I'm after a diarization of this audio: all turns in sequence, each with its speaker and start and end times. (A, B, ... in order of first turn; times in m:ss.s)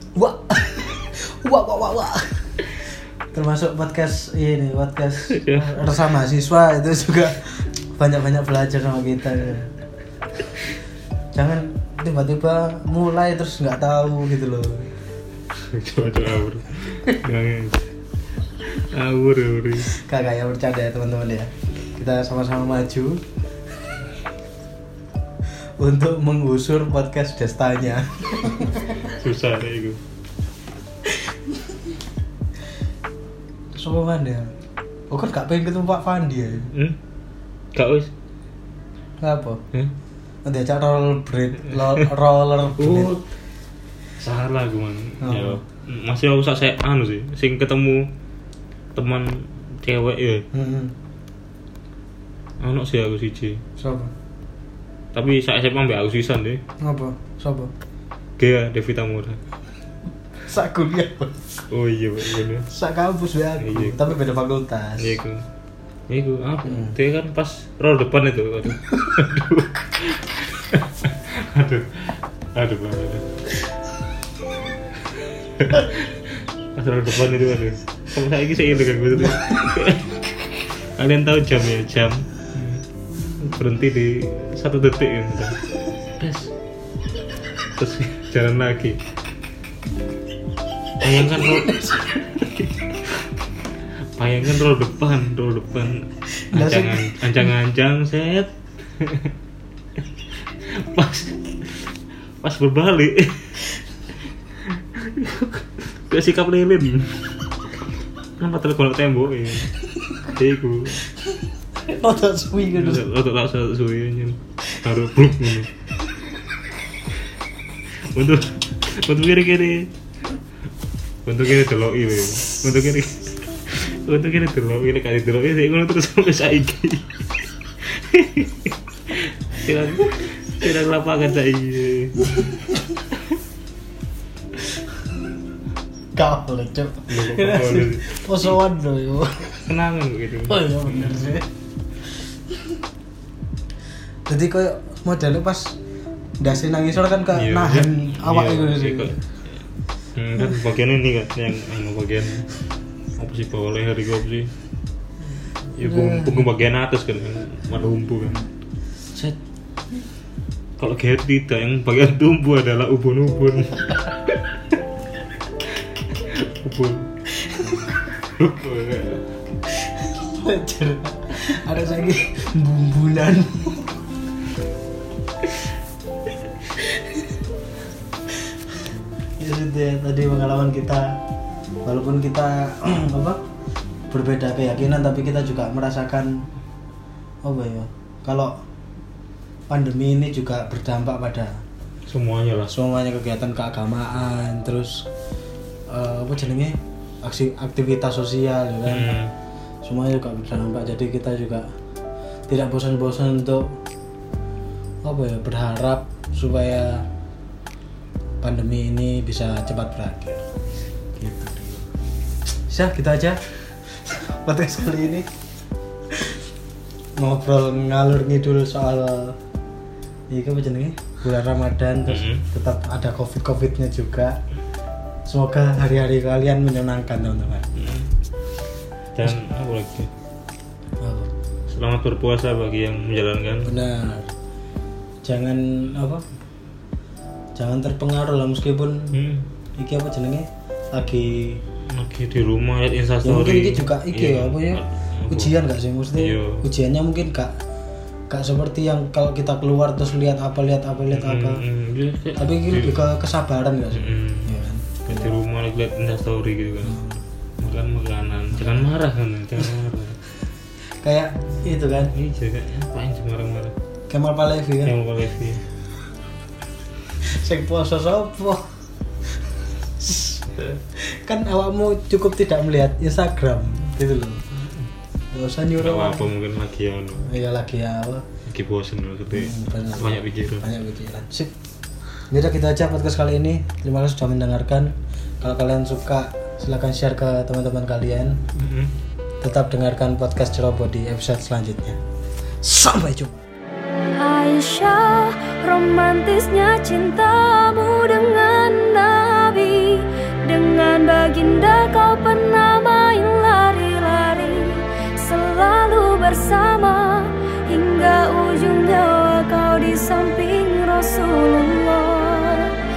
0:00.1-0:02.7 A
0:03.3-0:09.7 A
0:05.3-0:05.9 B
0:11.3-0:14.9 A
0:15.5-0:17.8 B
0:18.6-0:19.9 B
0:19.9-0:23.2 A
0:25.8-0:29.1 A
0:29.1-0:30.0 B
0:33.7-0:34.5 A
0:35.1-0:36.7 A
0:36.7-0:37.0 B
0:37.7-0:38.1 B
0:39.2-0:39.6 A
0:40.4-0:43.2 A
0:42.8-0:43.3 B
0:44.2-0:48.1 B
0:45.2-0:45.6 A
0:48.9-0:50.5 B
0:50.5-0:50.9 A
0:52.6-0:53.6 B
0:53.8-0:54.1 A
0:55.1-0:56.6 B
0:56.8-0:57.7 A
0:58.4-0:59.4 B
1:00.4-1:01.4 A
1:01.7-1:02.7 B
1:02.7-1:05.2 A
1:03.6-1:04.1 B
1:05.0-1:05.5 B
1:06.1-1:13.3 B
1:06.6-1:06.9 A
1:15.4-1:22.8 B
1:23.4-1:25.6 B
1:26.2-1:26.5 B
1:27.8-1:29.0 B
1:31.0-1:33.2 B
1:31.4-1:32.2 A
1:34.0-1:39.3 B
1:36.3-1:37.2 A
1:40.6-1:43.6 B
1:44.5-1:47.4 B
1:48.4-1:51.0 B
1:51.8-1:53.0 A
1:52.7-1:55.7 B
1:57.9-1:59.9 B
2:01.2-2:07.2 B
2:07.8-2:12.6 B
2:16.1-2:19.7 A
2:17.1-2:18.6 B
2:19.6-2:21.4 B
2:20.5-2:21.5 A
2:24.3-2:25.8 A
2:26.4-2:29.2 A
2:27.3-2:29.5 B
2:30.1-2:32.5 B
2:33.2-2:34.5 B
2:35.7-2:38.5 B
2:35.8-2:36.3 A
2:40.8-2:44.6 B
2:45.6-2:47.1 B
2:47.3-2:48.0 A
2:48.2-2:49.3 B
2:49.6-2:54.0 A
2:56.8-2:57.2 A
2:59.4-3:01.2 A
3:01.8-3:03.4 A
3:04.1-3:06.5 A
3:07.4-3:08.6 A
3:09.7-3:11.6 A
3:12.1-3:12.7 B
3:12.7-3:15.1 A
3:15.9-3:19.2 A
3:18.8-3:19.3 B
3:19.8-3:21.7 A
3:22.5-3:23.7 A
3:25.0-3:27.0 A
3:28.4-3:30.4 A
3:31.2-3:31.8 A
3:32.7-3:33.4 A
3:34.0-3:35.3 A
3:37.2-3:39.4 A
3:40.3-3:44.4 A
3:42.1-3:42.4 B
3:45.2-3:47.7 A
3:47.7-3:48.1 B
3:49.1-3:50.1 B
3:51.0-3:51.3 A
3:51.7-3:53.7 B
3:53.6-3:54.3 A
3:55.2-3:56.2 A
3:57.6-3:59.1 A
3:59.1-3:59.5 B
3:59.8-4:01.6 A
4:01.8-4:05.5 B
4:03.2-4:07.6 A
4:06.2-4:06.6 B
4:08.3-4:11.6 A
4:11.1-4:13.1 B
4:12.4-4:15.3 A
4:13.9-4:17.0 B
4:16.9-4:17.2 A
4:17.6-4:20.2 B
4:18.6-4:18.8 A
4:21.0-4:22.1 A
4:22.1-4:23.8 B
4:24.1-4:24.9 A
4:24.8-4:25.6 B
4:27.2-4:28.7 A
4:30.0-4:34.4 A
4:35.3-4:36.3 A
4:35.8-4:37.3 B
4:37.2-4:38.2 A
4:38.4-4:40.7 B
4:39.3-4:41.5 A
4:42.3-4:48.4 A
4:48.5-4:48.9 B
4:49.4-4:52.0 A
4:52.6-4:53.4 A
4:54.2-5:12.8 C